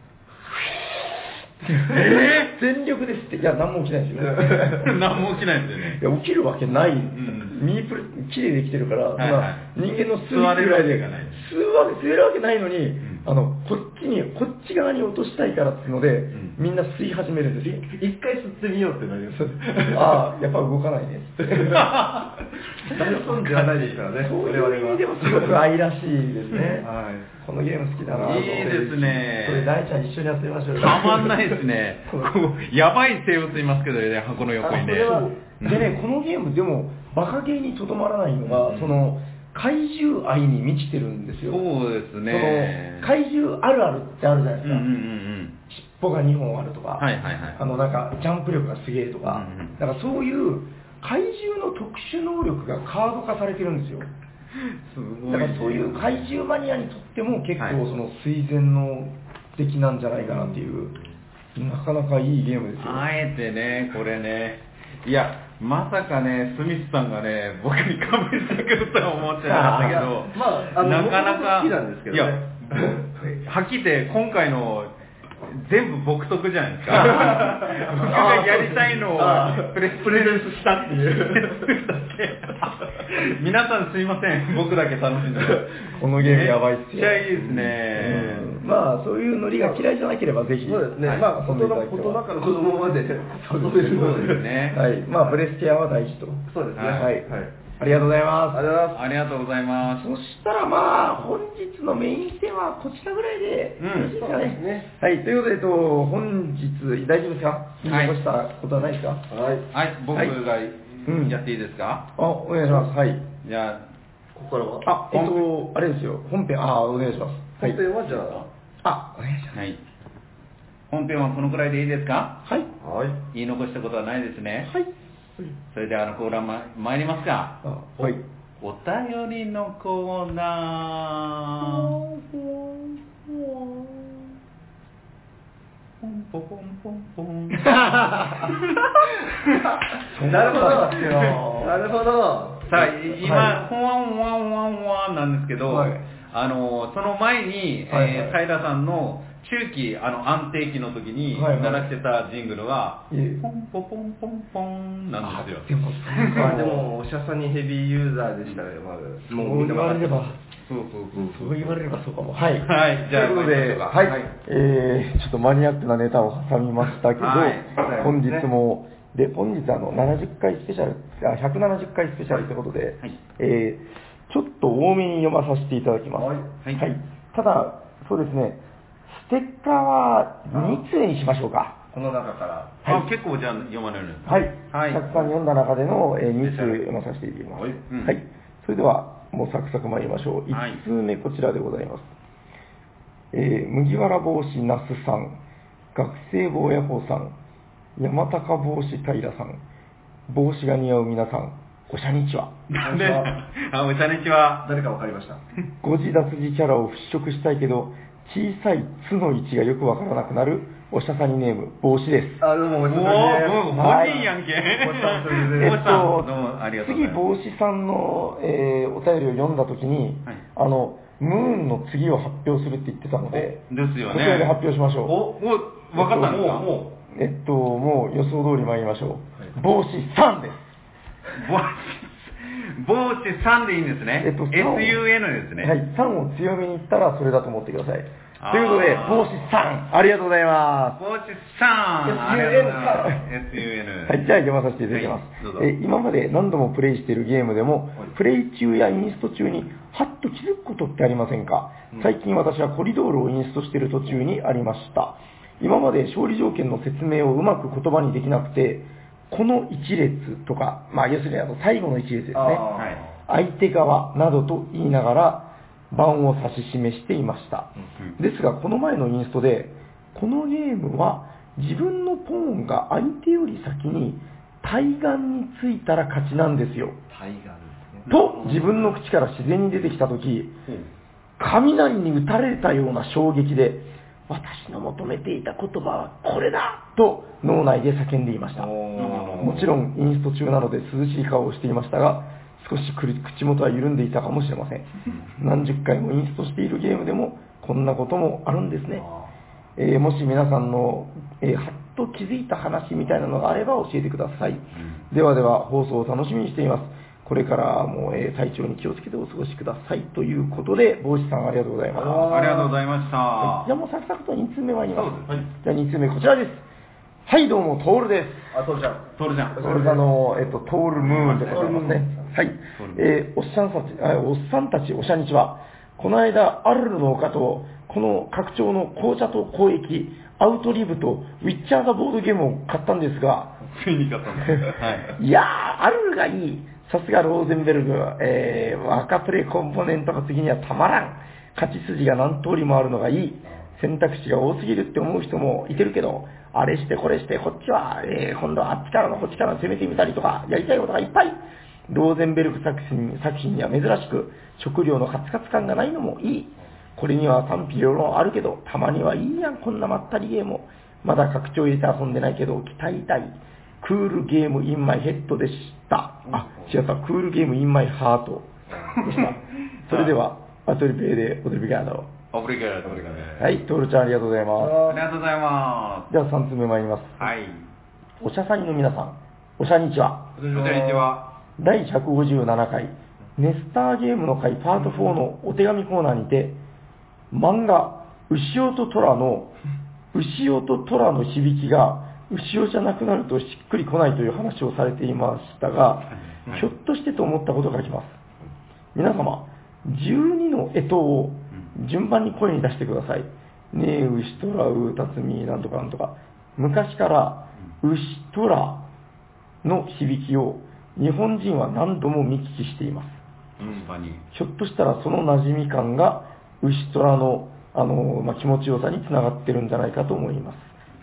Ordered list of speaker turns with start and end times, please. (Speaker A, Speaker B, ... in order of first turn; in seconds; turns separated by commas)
Speaker A: 0.6-5.0, Speaker B: 1.9-2.5, Speaker B: 4.8-6.0, Speaker A: 5.8-17.9, Speaker B: 7.1-7.5, Speaker B: 9.2-9.7, Speaker B: 10.3-11.4, Speaker C: 17.6-20.2, Speaker A: 19.4-21.9, Speaker C: 21.5-21.8, Speaker B: 21.7-22.3, Speaker C: 22.8-25.6, Speaker B: 23.5-24.0, Speaker A: 24.2-26.9, Speaker C: 26.8-27.3, Speaker A: 27.4-31.6, Speaker B: 28.1-29.7, Speaker B: 30.8-35.9, Speaker A: 34.6-41.6, Speaker C: 34.6-35.3, Speaker B: 38.5-39.0, Speaker B: 41.5-43.1, Speaker A: 42.3-44.9, Speaker B: 44.6-45.6, Speaker A: 45.7-54.1, Speaker B: 47.0-47.6, Speaker B: 49.2-49.8, Speaker B: 54.6-56.2, Speaker A: 55.3-61.0, Speaker C: 60.3-61.0, Speaker A: 61.5-63.1, Speaker B: 62.8-74.9, Speaker A: 69.4-70.1, Speaker C: 69.8-73.1, Speaker B: 75.4-88.5, Speaker A: 76.9-78.8, Speaker C: 77.1-77.7, Speaker C: 79.0-81.7, Speaker A: 85.9-92.2, Speaker C: 90.6-94.5, Speaker A: 93.4-98.7, Speaker B: 93.9-94.8, Speaker C: 95.1-95.4, Speaker C: 96.5-97.5, Speaker B: 96.8-97.1, Speaker C: 98.5-99.0, Speaker B: 98.9-100.1, Speaker A: 99.8-109.2, Speaker B: 103.8-104.1, Speaker C: 104.0-104.9, Speaker B: 107.8-108.2, Speaker C: 109.3-109.7, Speaker B: 109.7-112.1, Speaker A: 111.0-111.4, Speaker A: 112.2-113.2, Speaker B: 113.4-113.8, Speaker C: 114.3-114.9, Speaker A: 114.8-117.8, Speaker B: 115.1-115.5, Speaker C: 117.6-118.5, Speaker B: 118.1-118.4, Speaker A: 118.8-119.6, Speaker B: 119.5-119.8, Speaker B: 120.9-122.4, Speaker C: 122.8-123.2, Speaker B: 123.3-124.7, Speaker B: 125.7-131.9, Speaker A: 127.6-128.2, Speaker A: 131.6-134.2, Speaker B: 136.0-138.6, Speaker A: 137.7-138.5, Speaker A: 140.1-141.8, Speaker C: 140.2-142.7, Speaker B: 142.7-156.5, Speaker A: 142.8-143.6, Speaker A: 145.7-146.0, Speaker A: 147.9-148.4, Speaker A: 151.3-151.9, Speaker A: 153.1-153.4, Speaker A: 155.2-156.8, Speaker C: 156.3-160.2, Speaker A: 159.3-160.4, Speaker B: 160.6-161.4, Speaker C: 161.1-161.5, Speaker A: 161.2-181.8, Speaker B: 162.6-164.3, Speaker B: 167.2-167.9, Speaker C: 167.8-168.5, Speaker C: 176.2-176.5, Speaker C: 180.5-180.8, Speaker C: 181.9-182.8, Speaker B: 182.8-185.1, Speaker A: 184.2-192.1, Speaker B: 186.4-186.7, Speaker B: 187.9-188.2, Speaker B: 190.5-190.8, Speaker A: 193.3-195.4, Speaker A: 195.9-197.3, Speaker A: 198.0-199.6, Speaker A: 200.3-202.5, Speaker B: 202.7-204.7, Speaker C: 202.8-203.3, Speaker C: 204.6-205.4, Speaker A: 205.8-212.4, Speaker C: 212.4-214.1, Speaker B: 212.9-217.2, Speaker A: 213.7-214.3, Speaker C: 214.7-215.8, Speaker A: 215.5-225.2, Speaker B: 223.3-226.8, Speaker A: 225.9-230.7, Speaker C: 226.2-226.9, Speaker B: 231.3-235.7, Speaker A: 234.2-235.0, Speaker A: 235.6-241.0, Speaker B: 238.4-239.4, Speaker B: 241.0-244.2, Speaker C: 242.0-243.2, Speaker A: 244.1-262.6, Speaker B: 244.9-245.7, Speaker C: 262.3-263.1, Speaker B: 262.7-263.0, Speaker A: 263.3-277.0, Speaker C: 277.1-278.1, Speaker B: 278.1-278.9, Speaker A: 278.1-280.6, Speaker A: 281.4-288.8, Speaker C: 288.6-289.5, Speaker B: 288.9-289.7, Speaker A: 289.4-299.1, Speaker C: 299.0-299.3, Speaker A: 299.8-312.3, Speaker B: 304.8-305.0, Speaker C: 311.9-312.7, Speaker B: 312.3-313.7, Speaker A: 313.4-316.6, Speaker B: 314.9-315.5, Speaker A: 317.2-318.6, Speaker C: 318.5-320.0, Speaker B: 319.2-319.6, Speaker A: 319.6-333.6, Speaker B: 321.0-321.8, Speaker C: 321.2-322.3, Speaker B: 322.7-323.1, Speaker B: 333.7-335.1, Speaker A: 334.4-372.1, Speaker B: 368.9-370.1, Speaker B: 372.3-373.6, Speaker C: 372.8-373.2, Speaker A: 373.4-374.8, Speaker C: 374.6-375.0, Speaker B: 374.8-376.1, Speaker A: 376.1-377.3, Speaker B: 377.2-377.6, Speaker A: 378.2-380.4, Speaker C: 380.4-381.1, Speaker B: 380.5-381.3, Speaker A: 381.6-386.6, Speaker A: 387.3-389.5, Speaker A: 390.1-398.2, Speaker A: 398.9-408.9, Speaker A: 409.6-413.2, Speaker B: 413.6-414.2, Speaker A: 414.3-420.7